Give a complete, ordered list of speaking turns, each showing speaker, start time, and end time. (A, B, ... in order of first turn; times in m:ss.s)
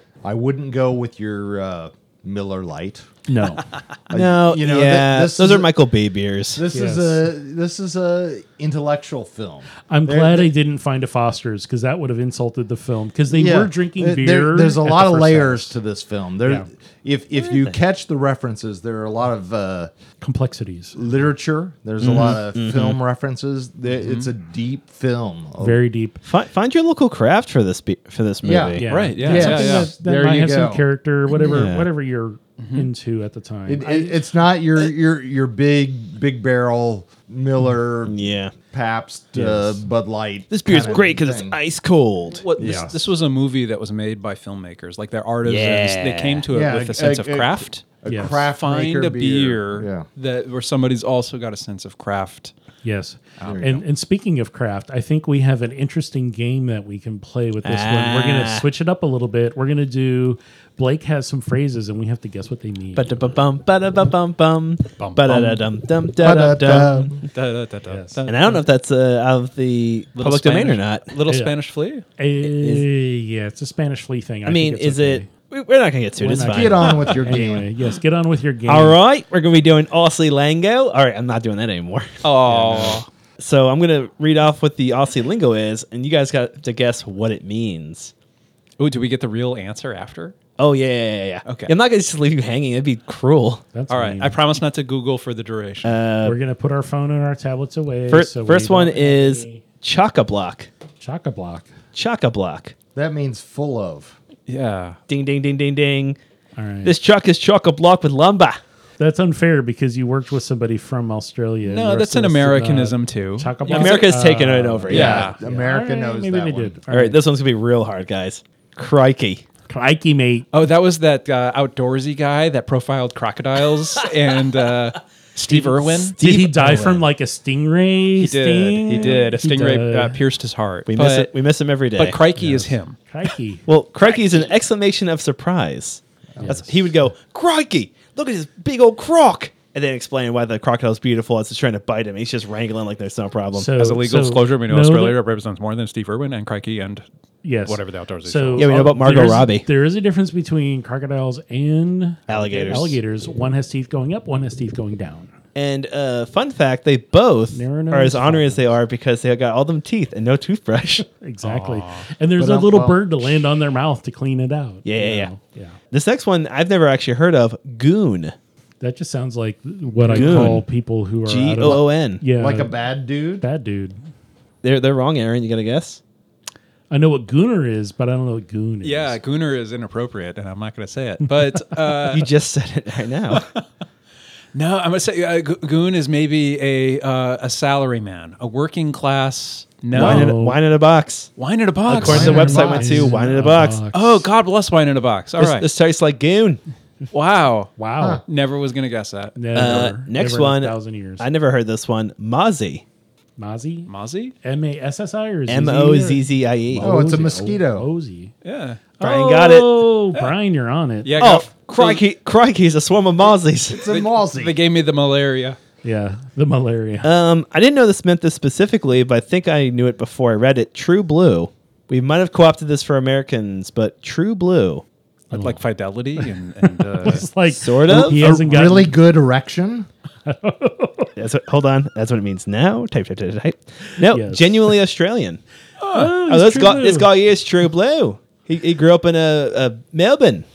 0:00.2-0:03.1 A
0:03.3-0:03.6 B
0:04.1-0:05.7 A
0:04.1-0:06.6 C
0:06.5-0:10.5 A
0:06.7-0:07.2 B
0:09.9-0:15.7 B
0:13.3-0:19.9 A
0:17.5-0:17.7 C
0:20.2-0:21.0 B
0:20.9-0:25.8 A
0:22.0-0:23.0 C
0:24.0-0:24.3 D
0:25.6-0:26.2 B
0:26.2-0:28.8 C
0:28.4-0:31.7 A
0:28.8-0:34.2 B
0:28.8-0:29.9 D
0:31.4-0:31.9 C
0:32.6-0:32.9 D
0:33.7-0:41.6 A
0:38.1-0:38.5 C
0:39.3-0:39.8 B
0:40.5-0:42.4 C
0:42.3-0:47.8 D
0:42.6-0:42.9 A
0:45.4-0:46.4 C
0:46.5-0:50.0 A
0:48.1-0:48.4 B
0:48.5-0:52.5 D
0:52.8-1:03.1 B
0:53.4-0:53.7 D
0:53.4-0:53.8 A
0:57.6-0:58.7 C
1:02.9-1:07.1 C
1:05.0-1:05.6 D
1:06.2-1:07.2 A
1:07.2-1:08.6 D
1:07.8-1:08.3 B
1:08.3-1:11.0 C
1:10.1-1:12.0 D
1:11.3-1:11.6 B
1:12.2-1:15.3 B
1:12.4-1:12.8 C
1:14.4-1:17.0 C
1:16.2-1:19.0 B
1:16.4-1:17.7 A
1:18.7-1:28.1 C
1:22.2-1:23.1 D
1:28.8-1:30.4 D
1:30.6-1:33.6 C
1:31.4-1:31.7 D
1:33.7-1:34.4 B
1:33.9-1:36.0 D
1:35.8-1:36.4 C
1:36.2-1:39.6 B
1:38.1-1:40.7 C
1:41.0-1:41.7 B
1:41.9-1:42.7 C
1:42.9-1:44.2 A
1:44.5-1:45.0 D
1:45.1-1:46.2 C
1:46.6-1:46.9 B
1:46.8-1:48.6 C
1:49.0-1:57.2 B
1:51.6-1:54.1 D
1:53.6-1:55.2 C
1:54.9-1:56.8 A
1:54.9-1:55.4 D
1:56.9-1:59.4 C
1:59.7-2:00.4 B
2:00.5-2:06.2 D
2:05.5-2:07.0 C
2:06.2-2:10.2 B
2:08.2-2:11.3 D
2:10.9-2:12.2 C
2:12.0-2:13.0 D
2:12.4-2:13.6 B
2:13.6-2:23.7 C
2:16.4-2:16.7 B
2:23.5-2:25.2 B
2:23.8-2:27.0 D
2:27.4-2:35.3 B
2:27.6-2:29.1 D
2:28.6-2:29.7 C
2:32.3-2:33.0 C
2:35.5-2:41.0 C
2:37.5-2:38.7 B
2:41.1-2:45.8 B
2:41.4-2:42.1 D
2:42.4-2:43.3 A
2:44.8-2:45.3 C
2:45.9-2:48.3 C
2:48.8-2:52.7 B
2:50.0-2:50.6 C
2:51.2-2:52.2 C
2:52.3-2:53.4 A
2:53.4-2:54.0 B
2:54.6-2:56.0 C
2:56.9-2:59.2 B
2:58.8-3:02.3 D
3:02.1-3:03.4 C
3:03.3-3:03.6 D
3:04.5-3:10.3 D
3:09.9-3:10.6 B
3:10.0-3:11.3 C
3:11.4-3:12.4 D
3:11.9-3:13.8 C
3:11.9-3:13.2 A
3:12.0-3:14.2 B
3:13.9-3:15.6 D
3:15.4-3:16.6 C
3:17.1-3:17.7 D
3:17.8-3:18.2 B
3:18.2-3:19.9 D
3:19.4-3:21.2 B
3:19.5-3:22.8 C
3:23.4-3:23.9 B
3:23.9-3:24.3 D
3:24.4-3:28.3 B
3:25.5-3:27.0 C
3:26.8-3:27.9 A
3:28.4-3:28.9 D
3:29.0-3:31.2 B
3:29.0-3:29.9 C
3:31.0-3:32.0 D
3:31.2-3:33.8 C
3:33.7-3:34.6 A
3:33.8-3:35.6 D
3:35.8-3:37.1 B
3:37.0-3:44.8 C
3:45.3-3:45.6 B
3:45.3-3:47.3 D
3:46.2-3:49.0 B
3:47.5-3:48.4 C
3:47.8-3:49.9 A
3:50.2-3:51.1 B
3:51.2-3:55.4 C
3:54.0-3:54.7 B
3:55.8-3:56.2 D
3:55.9-3:57.1 B
3:56.1-4:00.4 C